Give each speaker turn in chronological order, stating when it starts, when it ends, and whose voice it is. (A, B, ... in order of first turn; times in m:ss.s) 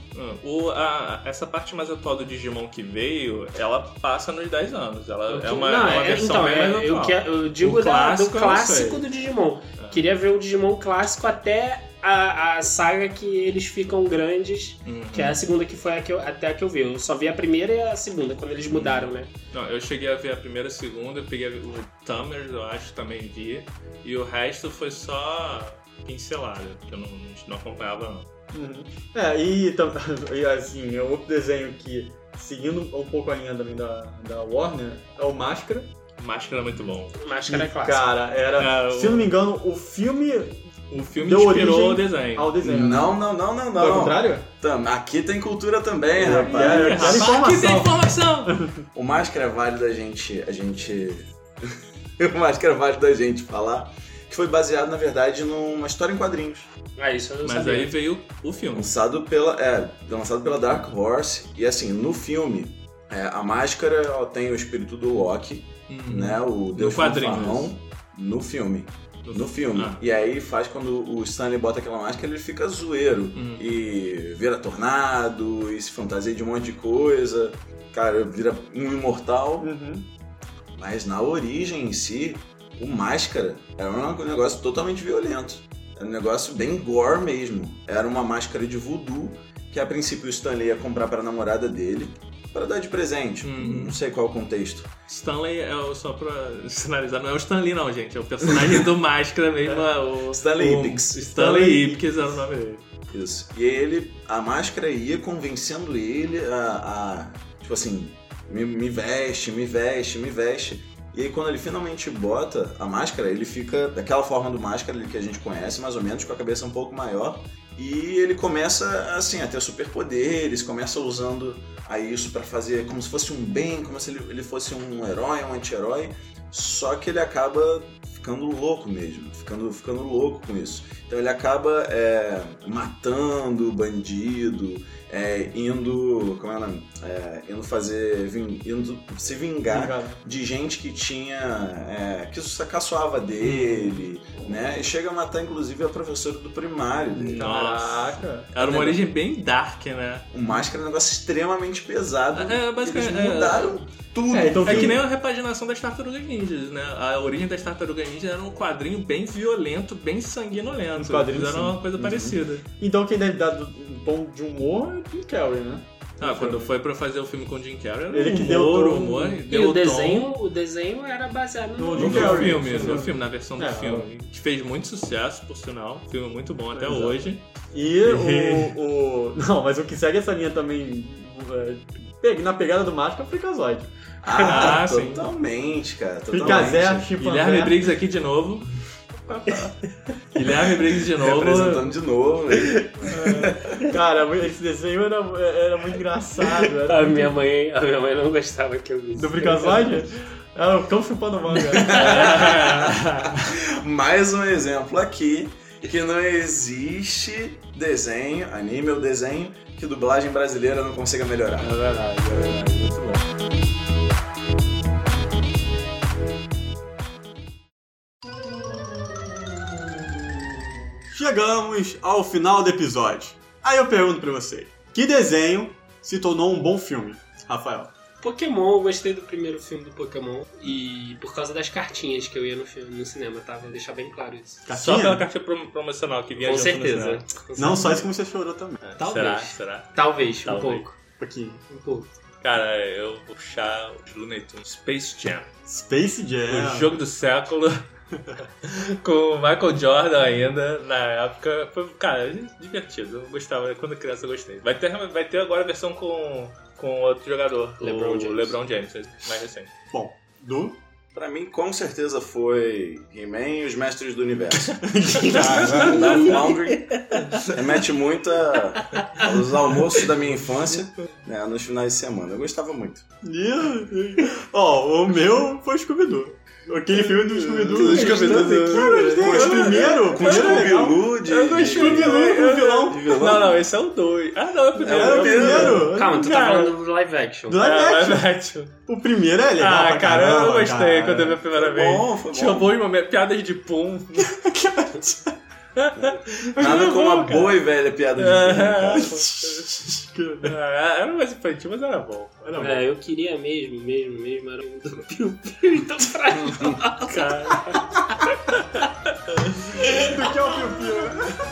0:00.1-0:09.0 A
0:05.3-0:19.3 B
0:14.8-0:15.4 A
0:18.7-0:28.3 A
0:28.5-0:35.9 C
0:36.2-0:37.2 A
0:37.2-0:38.2 B
0:37.5-0:43.2 C
0:38.6-0:39.4 A
0:40.9-0:42.6 A
0:42.6-0:47.3 D
0:43.7-0:44.5 C
0:46.2-0:48.8 C
0:46.3-0:48.6 A
0:48.9-0:56.7 D
0:57.0-0:57.9 B
0:57.4-0:58.9 A
0:58.7-1:19.7 D
1:05.9-1:07.7 A
1:09.2-1:10.0 A
1:13.3-1:13.6 A
1:19.6-1:20.1 C
1:20.7-1:34.9 D
1:33.4-1:34.0 A
1:35.1-1:42.8 A
1:38.4-1:38.8 D
1:40.2-1:41.3 D
1:41.3-1:42.2 C
1:43.1-2:27.6 D
2:19.7-2:20.2 C
2:23.4-2:24.1 A
2:27.1-2:30.3 A
2:27.4-2:28.5 C
2:28.6-2:29.0 D
2:30.3-2:35.0 D
2:32.3-2:33.8 A
2:34.3-2:35.0 C
2:34.6-2:42.6 A
2:40.9-2:46.7 C
2:46.2-2:50.3 A
2:48.1-2:49.4 C
2:49.5-2:53.0 B
2:51.8-2:54.1 C
2:51.9-2:57.5 A
2:56.7-3:03.9 C
2:58.0-2:58.7 A
3:04.2-3:07.1 D
3:04.4-3:05.3 A
3:06.3-3:07.8 C
3:07.2-3:08.7 A
3:10.3-3:12.0 A
3:11.2-3:13.9 D
3:13.9-3:17.3 C
3:16.4-3:20.0 B
3:19.1-3:22.4 C
3:21.7-3:31.7 D
3:21.8-3:23.5 A
3:31.6-3:33.3 A
3:41.1-3:47.9 C
3:48.2-3:54.6 B
3:54.6-3:55.3 C
3:54.7-3:57.3 A
3:56.4-3:58.1 B
3:57.6-3:58.8 C
3:58.9-4:00.9 A
3:59.0-4:01.0 B
4:01.2-4:01.6 C
4:01.7-4:02.1 B
4:02.4-4:05.5 A
4:05.7-4:06.9 C
4:06.5-4:19.7 A
4:17.8-4:18.6 B
4:19.9-4:20.8 C
4:21.1-4:33.0 D
4:24.8-4:26.4 C
4:25.3-4:26.5 A
4:33.2-4:43.3 C
4:36.9-4:46.7 A
4:37.7-4:43.6 D
4:44.8-4:45.9 D
4:44.8-4:46.4 C
4:45.9-4:47.7 B
4:47.5-4:48.3 C
4:47.6-4:48.8 A
4:48.9-4:51.4 C
4:49.6-4:54.5 A
4:51.5-4:52.7 D
4:54.2-4:55.3 C
4:55.8-4:57.6 A
4:56.6-4:59.2 D
4:56.6-4:56.9 C
4:58.2-4:59.7 A
4:58.9-5:00.6 C
5:00.4-5:02.5 A
5:02.4-5:02.8 C
5:02.6-5:07.9 B
5:07.0-5:08.8 A
5:09.7-5:11.4 C
5:09.7-5:10.1 A